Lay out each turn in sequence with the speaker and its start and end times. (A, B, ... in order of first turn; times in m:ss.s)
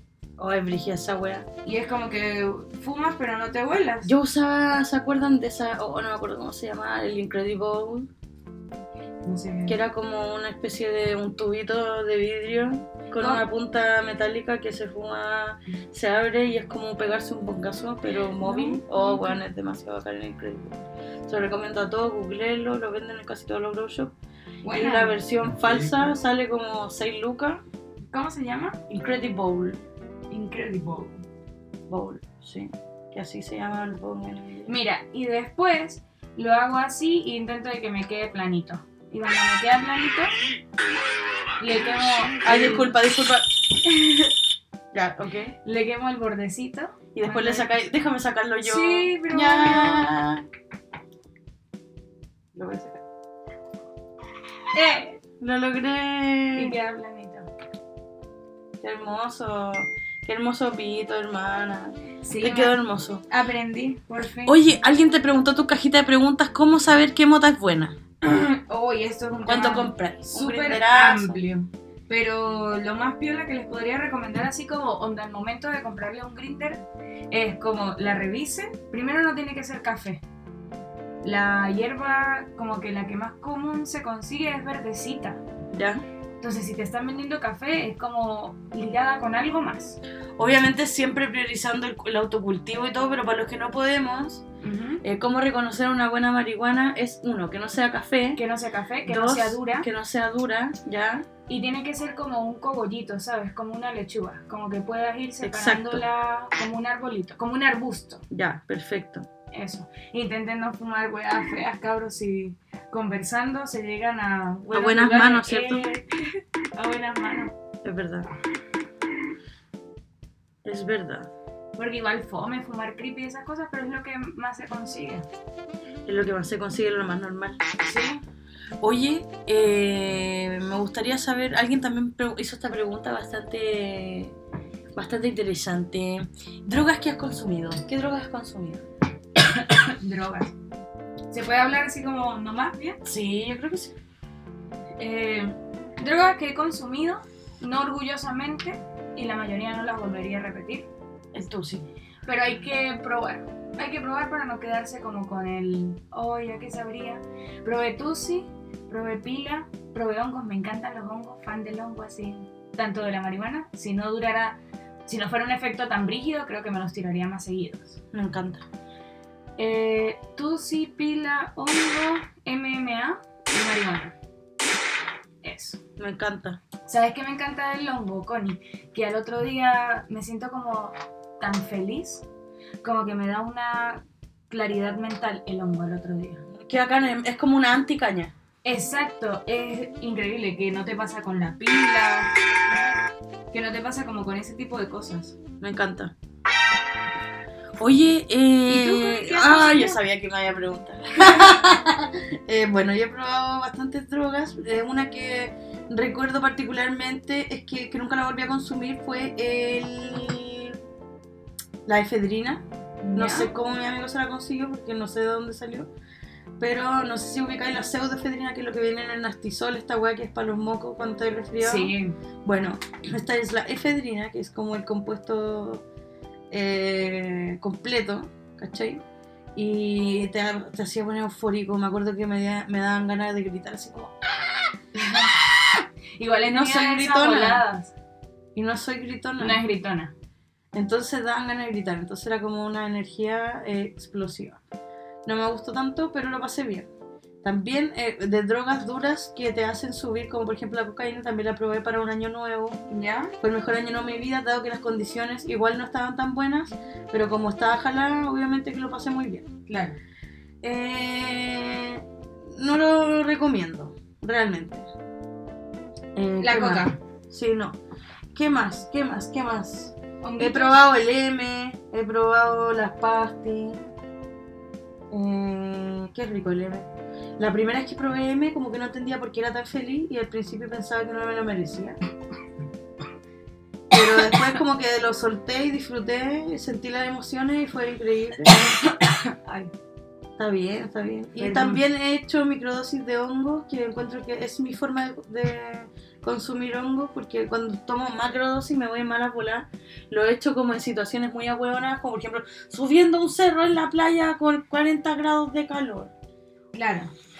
0:00.4-0:01.5 A
0:01.6-0:04.1 B
0:04.0-0:08.1 A
0:09.2-0:09.8 B
0:09.7-0:24.1 A
0:13.1-0:13.4 B
0:18.4-0:19.4 B
0:24.6-0:25.2 B
0:24.7-0:27.6 A
0:28.1-0:28.8 B
0:28.9-0:29.8 A
0:30.3-0:31.2 B
0:31.9-0:34.7 A
0:34.7-0:40.3 B
0:41.6-0:42.9 B
0:42.4-0:43.5 A
0:43.8-0:44.3 B
0:44.9-0:45.5 A
0:45.6-0:47.7 B
0:47.1-0:50.4 A
0:48.6-0:50.1 B
0:52.5-0:53.0 A
0:54.7-0:55.2 B
0:55.4-0:56.8 A
0:56.5-0:57.5 B
0:58.8-1:03.2 A
1:02.2-1:02.8 B
1:03.3-1:04.6 B
1:04.4-1:08.0 A
1:08.2-1:20.2 B
1:09.4-1:11.4 A
1:21.2-1:25.4 B
1:25.7-1:26.0 A
1:26.4-1:30.0 B
1:30.4-1:34.4 A
1:34.6-1:35.0 B
1:35.0-1:38.4 A
1:38.4-1:39.9 B
1:39.0-1:41.3 A
1:41.5-1:48.2 B
1:45.4-1:46.0 A
1:48.3-1:49.3 A
1:49.5-1:56.1 B
1:54.7-1:55.8 A
1:56.7-1:57.5 B
1:57.8-1:58.3 A
2:00.6-2:01.3 A
2:01.8-2:05.3 B
2:06.0-2:07.6 A
2:07.8-2:08.2 B
2:08.8-2:14.4 A
2:14.9-2:18.8 A
2:19.5-2:20.5 B
2:21.3-2:23.0 B
2:23.0-2:23.9 A
2:25.0-2:30.9 B
2:31.3-2:31.8 A
2:32.2-2:48.0 B
2:48.1-2:48.6 A
2:49.6-2:54.1 B
2:55.4-2:55.8 B
2:56.0-2:56.6 A
2:56.9-3:02.2 B
3:02.8-3:06.4 B
3:06.5-3:08.3 A
3:08.6-3:12.3 B
3:13.5-3:15.4 B
3:15.6-3:16.1 A
3:17.8-3:30.8 A
3:18.7-3:20.0 B
3:21.2-3:21.5 B
3:31.8-3:35.9 A
3:33.0-3:33.5 B
3:36.6-3:45.8 A
3:41.6-3:42.1 B
3:46.5-3:49.0 A
3:49.5-3:54.1 A
3:54.9-3:57.9 B
3:56.5-3:57.6 A
3:58.5-3:59.6 A
3:59.4-4:00.1 B
4:00.7-4:04.6 A
4:05.2-4:06.9 A
4:07.4-4:12.8 A
4:12.9-4:13.3 B
4:13.4-4:19.5 A
4:19.7-4:20.0 B
4:20.6-4:24.9 A
4:26.1-4:27.8 A
4:26.4-4:27.0 B
4:28.3-4:33.8 A
4:30.2-4:30.8 B
4:35.1-4:36.9 A
4:37.4-4:42.0 A
4:43.9-4:48.8 A
4:48.5-4:49.7 B
4:50.4-5:06.1 A
4:51.4-4:51.8 B
5:06.7-5:07.1 B